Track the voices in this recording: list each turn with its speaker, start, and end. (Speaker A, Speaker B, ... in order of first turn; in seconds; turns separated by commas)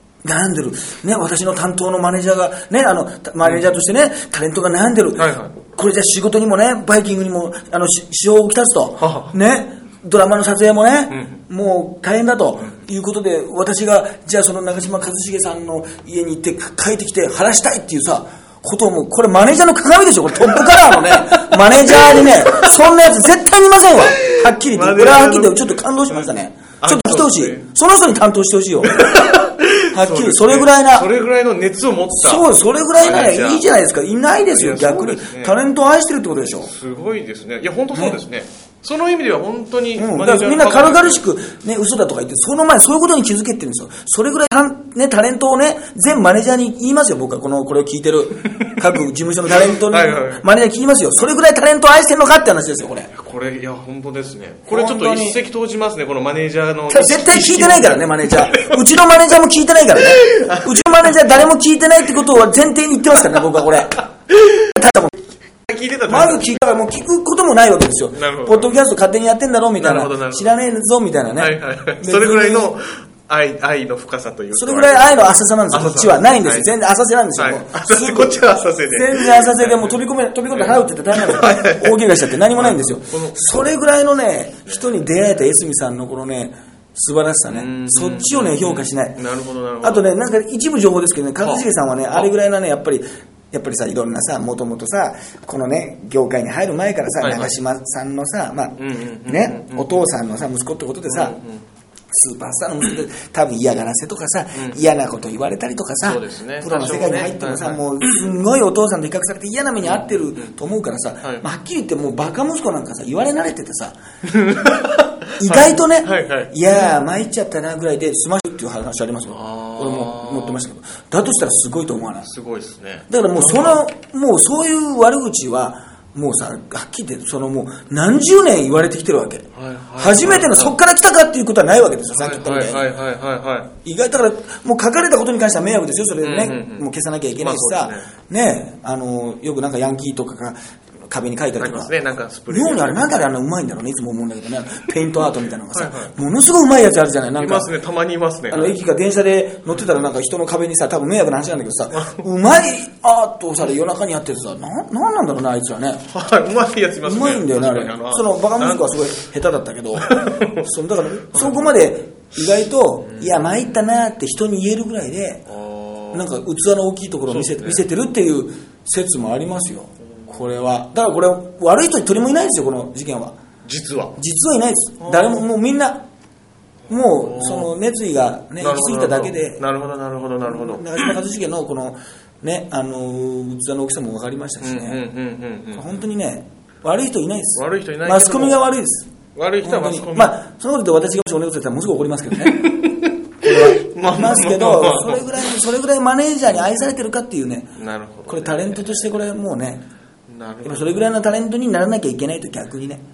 Speaker A: 0.2-29.4, Speaker B: 5.2-5.5, Speaker B: 9.0-9.3, Speaker B: 11.1-11.4, Speaker B: 21.3-22.7, Speaker B: 24.0-27.7, Speaker B: 28.8-33.7, Speaker A: 29.9-31.1, Speaker A: 32.1-36.7, Speaker B: 34.5-35.6, Speaker B: 36.4-41.2, Speaker A: 37.9-38.2, Speaker A: 40.0-53.1, Speaker B: 48.5-48.8, Speaker B: 49.6-50.4, Speaker B: 53.1-58.9, Speaker A: 54.7-55.4, Speaker A: 56.9-65.2, Speaker B: 60.0-61.2, Speaker B: 64.0-64.7, Speaker B: 65.7-66.6, Speaker A: 66.1-72.7, Speaker B: 68.1-68.8, Speaker B: 69.8-70.5, Speaker B: 71.3-76.7, Speaker A: 74.5-89.2, Speaker B: 77.4-80.0, Speaker B: 80.5-83.4, Speaker B: 84.7-85.0, Speaker B: 87.5-90.1, Speaker A: 89.8-101.4, Speaker B: 91.4-92.3, Speaker B: 97.2-97.5, Speaker B: 98.8-100.1, Speaker B: 101.1-101.6, Speaker A: 102.1-114.0, Speaker B: 106.0-108.2, Speaker B: 109.8-110.5, Speaker B: 114.2-116.9, Speaker A: 115.4-122.3, Speaker B: 119.3-120.6, Speaker B: 122.2-123.8, Speaker A: 123.1-132.9, Speaker B: 129.5-130.7, Speaker B: 132.1-133.7, Speaker A: 133.8-141.9, Speaker B: 136.2-138.1, Speaker B: 141.6-143.3, Speaker A: 142.5-147.7, Speaker B: 145.7-146.1, Speaker B: 147.4-148.8, Speaker A: 148.5-156.0, Speaker B: 151.9-152.2, Speaker B: 156.1-159.0, Speaker A: 157.0-165.4, Speaker B: 159.9-160.7, Speaker B: 161.3-161.7, Speaker B: 163.0-163.5, Speaker B: 165.5-166.3, Speaker A: 166.1-173.3, Speaker B: 167.3-167.8, Speaker B: 170.1-170.5, Speaker B: 173.6-174.2, Speaker A: 174.2-176.1, Speaker B: 175.0-175.4, Speaker B: 176.9-177.7, Speaker A: 176.9-179.6, Speaker B: 178.6-181.1, Speaker A: 180.4-185.0, Speaker B: 184.6-186.0, Speaker A: 185.7-189.1, Speaker B: 187.5-188.6, Speaker B: 189.3-190.4, Speaker A: 189.6-192.8, Speaker B: 192.4-195.4, Speaker A: 193.4-197.7, Speaker B: 197.8-199.0, Speaker A: 198.3-199.8, Speaker B: 200.3-201.1, Speaker A: 200.6-203.0